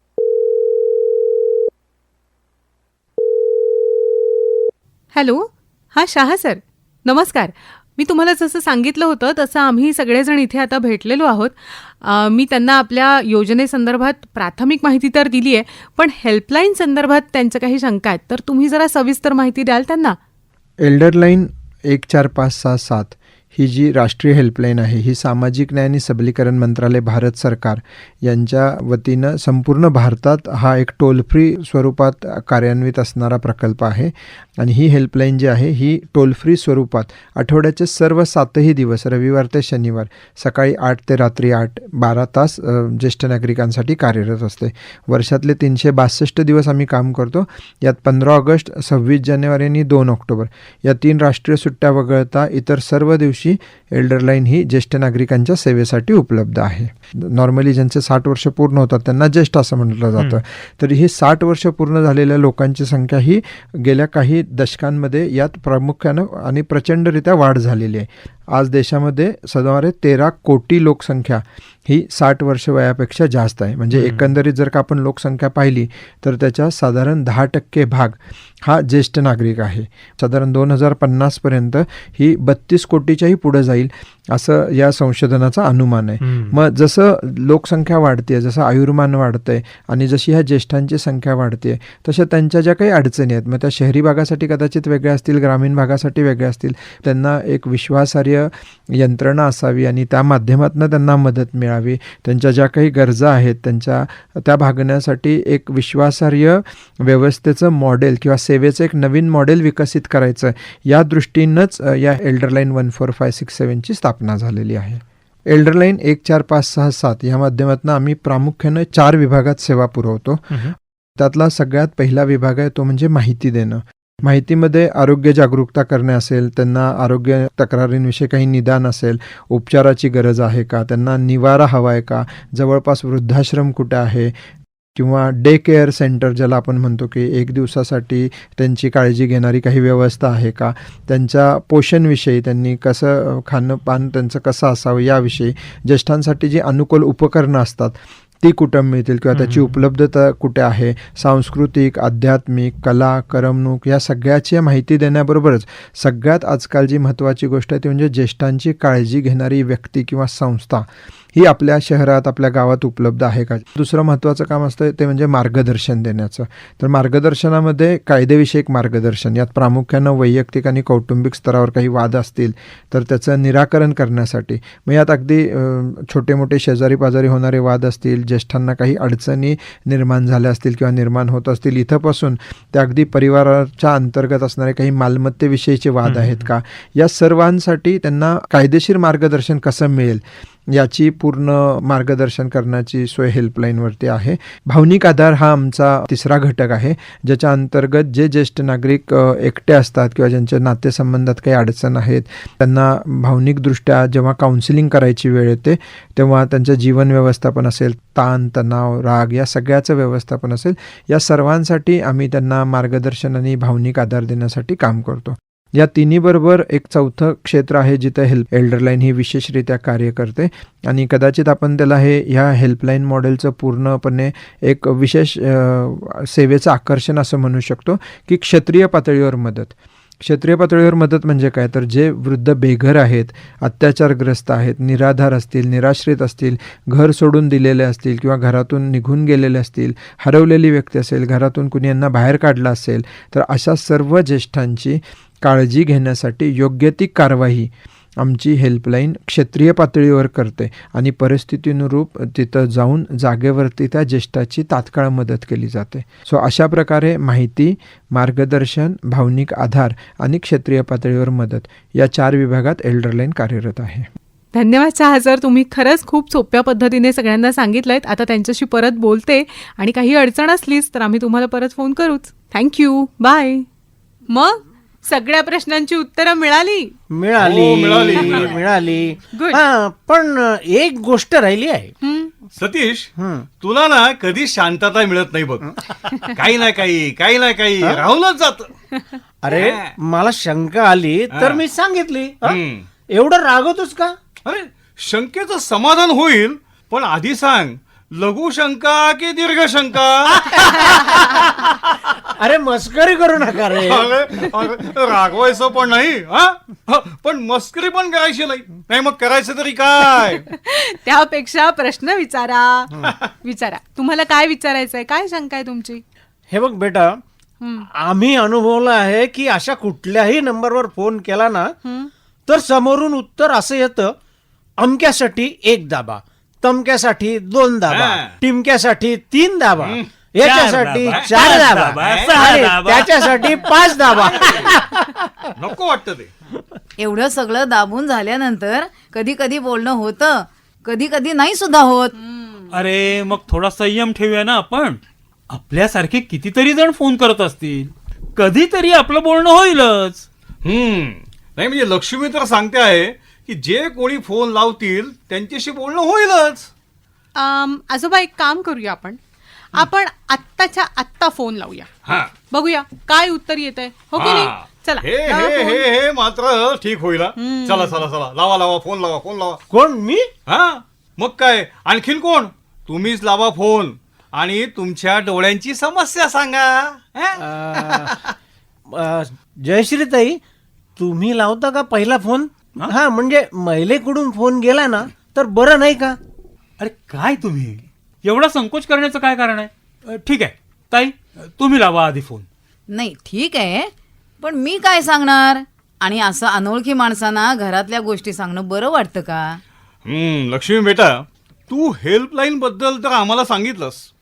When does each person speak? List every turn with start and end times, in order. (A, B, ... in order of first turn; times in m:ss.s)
0:05.1-0:20.2 A
0:20.8-2:14.3 B
2:15.0-4:24.1 B
4:24.5-4:33.7 A
4:34.3-4:36.9 A
4:37.1-4:41.9 C
4:37.4-4:38.6 D
4:39.3-4:39.6 A
4:42.0-4:42.3 A
4:42.6-4:45.7 D
4:43.2-4:43.5 C
4:46.3-4:48.7 D
4:49.4-4:52.6 C
4:49.5-4:50.0 D
4:51.3-4:51.6 D
4:52.4-4:52.9 D
4:53.1-4:54.2 C
4:54.4-5:00.7 D
5:02.4-5:04.4 C
5:03.7-5:10.4 D
5:10.5-5:16.0 A
5:16.5-5:17.2 C
5:17.6-5:17.9 A
5:18.0-5:21.7 C
5:21.8-5:22.1 A
5:22.5-5:24.1 C
5:24.8-5:35.3 C
5:27.9-5:28.4 D
5:29.8-5:30.1 D
5:30.4-5:33.7 E
5:31.1-5:31.4 D
5:32.0-5:32.4 D
5:34.4-5:34.6 D
5:35.6-5:36.3 D
5:37.0-5:42.2 F
5:42.7-5:45.0 E
5:45.5-5:50.3 E
5:50.6-5:56.7 D
5:57.4-5:59.2 A
5:59.7-6:01.9 A
6:02.0-6:02.3 D
6:02.5-6:05.9 A
6:04.2-6:09.6 D
6:07.4-6:08.1 A
6:09.7-6:10.3 C
6:10.5-6:18.3 D
6:17.4-6:18.1 C
6:18.9-6:20.4 C
6:21.0-6:26.2 C
6:26.8-6:32.5 E
6:32.9-6:39.6 F
6:40.1-6:44.1 D